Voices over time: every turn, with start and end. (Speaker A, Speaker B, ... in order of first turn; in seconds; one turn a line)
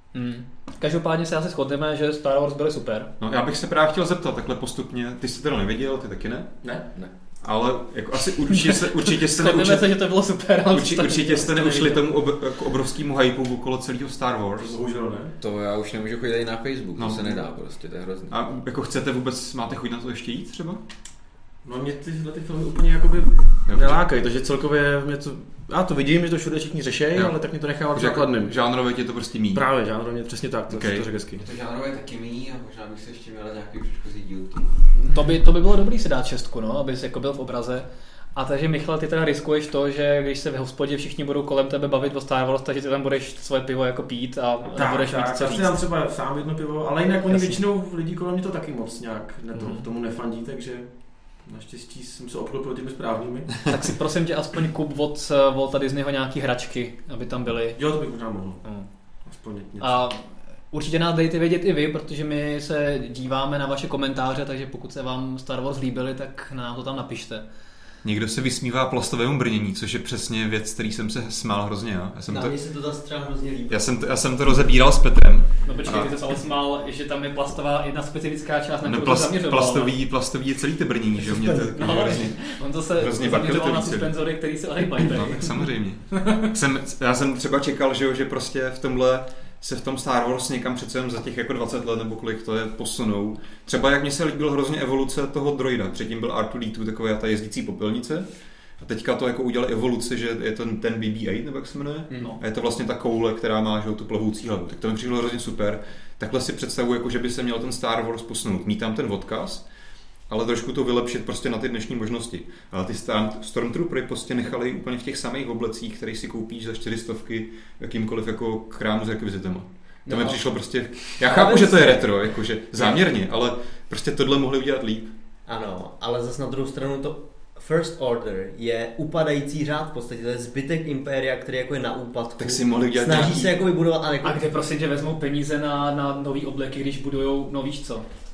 Speaker A: 0.1-3.1
Speaker B: 3.2-6.5
Speaker B: 7.4-9.9
Speaker A: 8.5-12.0
Speaker B: 10.7-14.7
Speaker C: 14.6-15.3
Speaker D: 15.4-18.3
Speaker B: 17.0-17.4
Speaker B: 18.3-20.8
Speaker C: 21.6-28.6
Speaker B: 23.7-24.0
Speaker B: 27.9-29.6
Speaker C: 29.5-31.4
Speaker B: 30.7-31.1
Speaker D: 31.4-34.8
Speaker A: 35.0-45.8
Speaker C: 44.7-53.7
Speaker A: 47.3-47.6
Speaker A: 49.5-49.8
Speaker A: 53.7-57.8
Speaker C: 57.8-58.6
Speaker C: 59.3-60.0
Speaker A: 59.8-67.4
Speaker B: 68.0-72.6
Speaker E: 72.3-74.0
Speaker B: 73.7-76.1
Speaker A: 75.6-80.0
Speaker B: 78.8-84.1
Speaker A: 81.5-86.5
Speaker B: 85.0-98.2
Speaker B: 98.8-109.6
Speaker A: 102.1-102.4
Speaker B: 110.3-125.1
Speaker E: 120.0-120.4
Speaker E: 121.1-122.2
Speaker E: 125.5-134.4
Speaker B: 132.4-133.6
Speaker A: 134.2-138.1